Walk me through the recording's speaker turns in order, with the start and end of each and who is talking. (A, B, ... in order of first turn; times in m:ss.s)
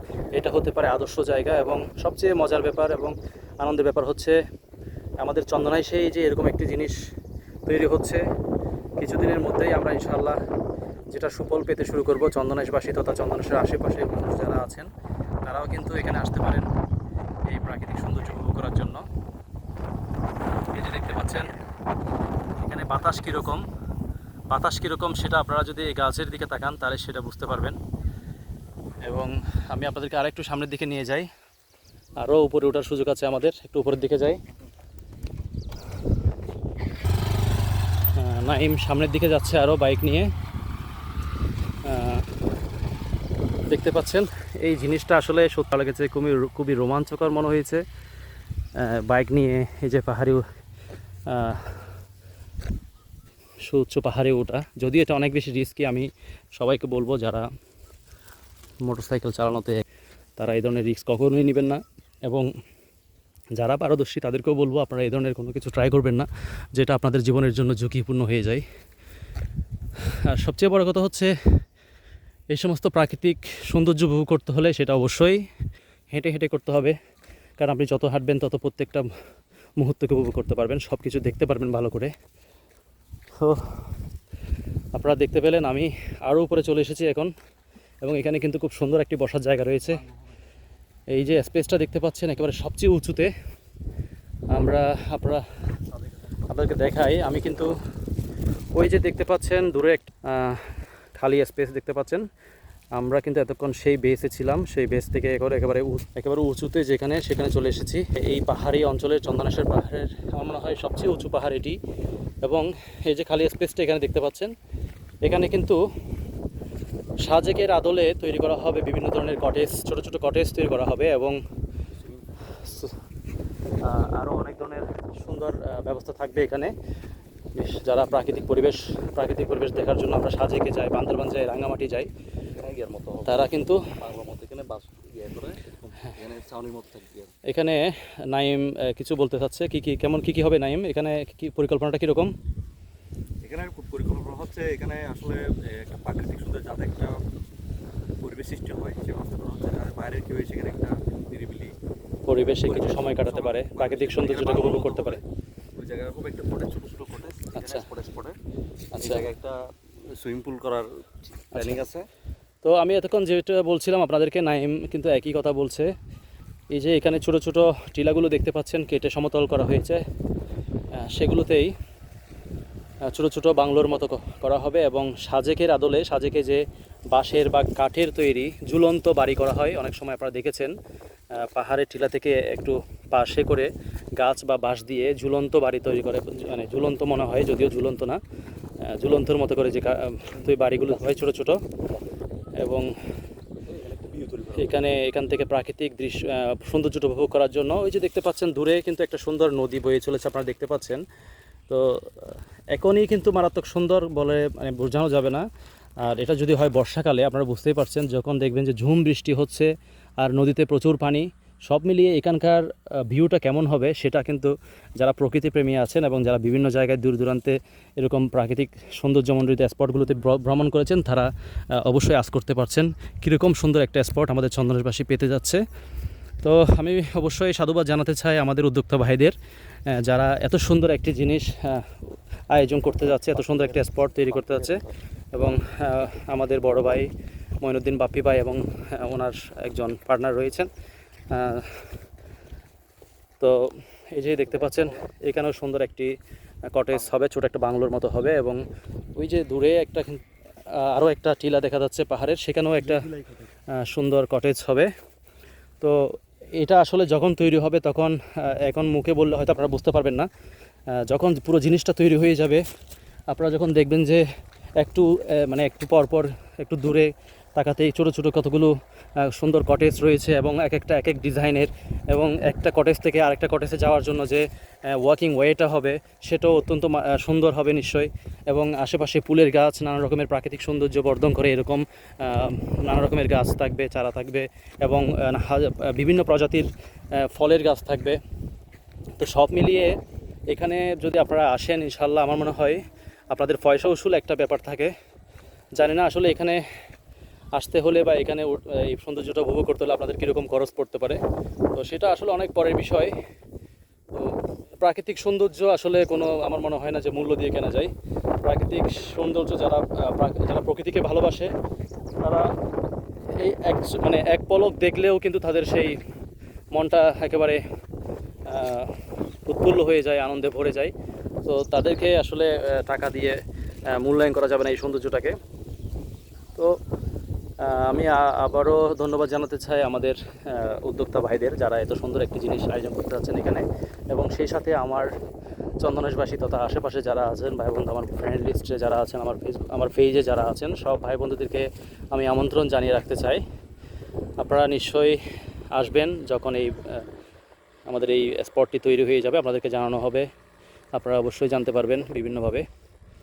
0:00.3-0:04.4 A
0:05.2-0:07.0 A
0:07.7-0:08.2 A
0:09.0-0:10.4 A
0:11.1-0:14.9 A
0:15.4-0:16.7 A
0:17.5-0:19.0 A
0:20.7-0:21.5 A
0:22.6-0:23.6 A
0:24.5-0:27.8 A
0:29.0-0:31.3 A
0:32.2-0:34.4 A
0:38.2-0:40.3 A
0:41.8-0:42.2 A
0:43.7-0:47.8 A
0:48.8-0:50.4 A
0:51.3-0:51.8 A
0:53.6-0:57.5 A
0:58.8-0:59.8 A
1:00.4-1:02.5 A
1:03.6-1:08.6 A
1:10.1-1:11.3 A
1:12.5-1:15.4 A
1:16.1-1:17.0 A
1:17.6-1:19.1 A
1:19.8-1:22.1 A
1:23.4-1:23.8 A
1:24.9-1:27.3 A
1:28.0-1:30.0 A
1:31.1-1:33.3 A
1:34.5-1:35.4 A
1:36.5-1:37.7 A
1:38.7-1:42.2 A
1:43.0-1:51.8 A
1:52.4-1:54.5 A
1:55.2-1:55.8 A
1:57.2-2:01.4 A
2:02.6-2:02.9 A
2:03.8-2:06.7 A
2:07.5-2:12.1 A
2:12.6-2:17.3 B
2:13.2-2:13.9 A
2:17.4-2:22.3 A
2:23.4-2:27.2 B
2:28.2-2:31.8 B
2:32.3-2:35.2 A
2:32.6-2:35.2 B
2:35.8-2:38.4 B
2:37.6-2:37.8 A
2:38.9-2:39.2 A
2:39.0-2:40.9 B
2:41.4-2:42.1 B
2:41.5-2:41.8 A
2:42.6-2:45.9 A
2:46.7-2:50.0 A
2:51.0-2:51.7 A
2:53.0-3:00.7 A
3:01.3-3:08.2 A
3:08.8-3:11.6 A
3:12.6-3:12.9 A
3:13.6-3:14.7 B
3:14.5-3:21.0 A
3:21.7-3:25.4 A
3:26.0-3:45.6 A
3:46.4-3:49.4 A
3:49.9-3:54.8 A
3:54.3-3:54.8 B
3:55.3-3:57.1 A
3:57.6-4:00.7 A
4:01.3-4:01.8 A
4:03.4-4:06.1 A
4:06.7-4:08.6 A
4:09.2-4:13.0 A
4:12.9-4:13.4 B
4:13.7-4:14.9 A
4:15.8-4:20.3 A
4:20.9-4:22.6 A
4:23.3-4:24.2 A
4:24.8-4:48.2 A
4:49.2-4:50.0 A
4:50.5-4:54.9 A
4:55.8-4:56.6 A
4:57.6-5:01.2 A
5:01.8-5:03.1 A
5:04.1-5:07.9 A
5:08.4-5:11.5 A
5:12.2-5:12.5 A
5:13.3-5:16.0 A
5:16.7-5:17.6 A
5:18.5-5:20.9 A
5:21.4-5:23.4 A
5:23.9-5:25.4 A
5:27.6-5:35.1 A
5:35.8-5:43.4 A
5:44.4-5:45.2 A
5:45.7-5:47.0 A
5:47.9-5:50.3 A
5:51.0-5:52.7 A